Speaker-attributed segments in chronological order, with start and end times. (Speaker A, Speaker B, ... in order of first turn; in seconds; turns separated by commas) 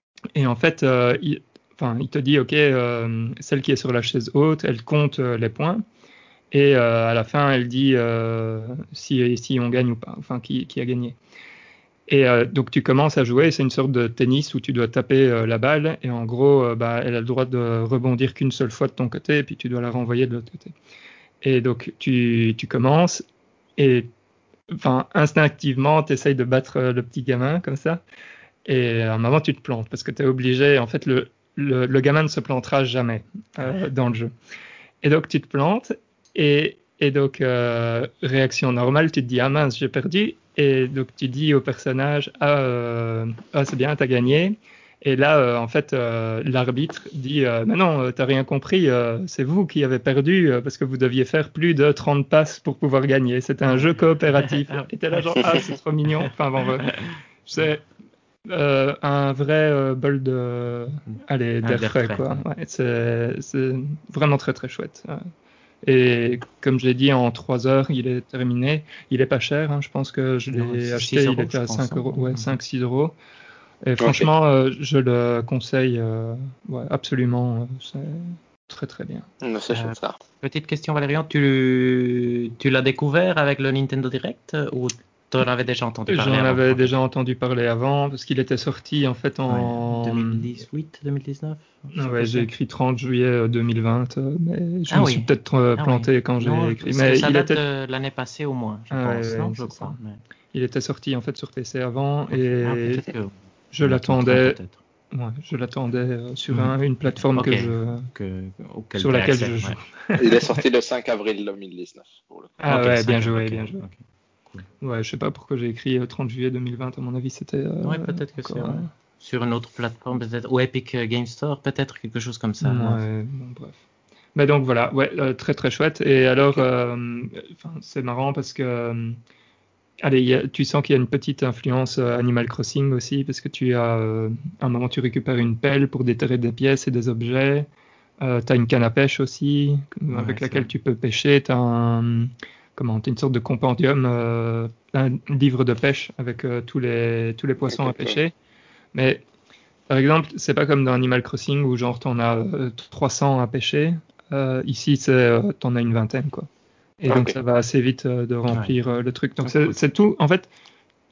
Speaker A: 0.3-5.8, Speaker A: 6.5-11.2, Speaker A: 12.1-20.7, Speaker A: 21.4-23.2, Speaker A: 23.8-24.1, Speaker A: 24.7-28.0, Speaker A: 28.7-34.3, Speaker A: 35.0-57.8, Speaker B: 54.4-55.5, Speaker B: 56.8-57.1, Speaker A: 58.5-65.3, Speaker B: 61.6-62.4, Speaker A: 65.8-73.2, Speaker B: 70.5-72.5, Speaker A: 73.8-79.3, Speaker C: 74.0-74.3, Speaker C: 79.4-80.2, Speaker B: 79.7-87.0, Speaker A: 86.1-90.5, Speaker B: 89.5-92.5, Speaker A: 92.0-97.6, Speaker B: 94.9-100.2, Speaker A: 98.9-100.0, Speaker A: 100.5-103.1, Speaker B: 102.3-104.8, Speaker A: 103.7-104.6, Speaker A: 105.1-108.1, Speaker B: 106.5-109.8, Speaker A: 109.0-110.6, Speaker C: 110.2-112.6, Speaker A: 112.6-113.8, Speaker B: 112.7-114.0, Speaker A: 114.8-118.9, Speaker B: 117.8-123.0, Speaker A: 122.6-123.8, Speaker A: 124.3-129.2, Speaker A: 130.0-137.7, Speaker A: 138.2-148.3, Speaker B: 140.1-140.7, Speaker C: 147.8-148.2, Speaker A: 148.9-149.2, Speaker A: 149.9-160.5, Speaker C: 157.1-157.4, Speaker B: 158.5-158.7, Speaker B: 159.4-159.8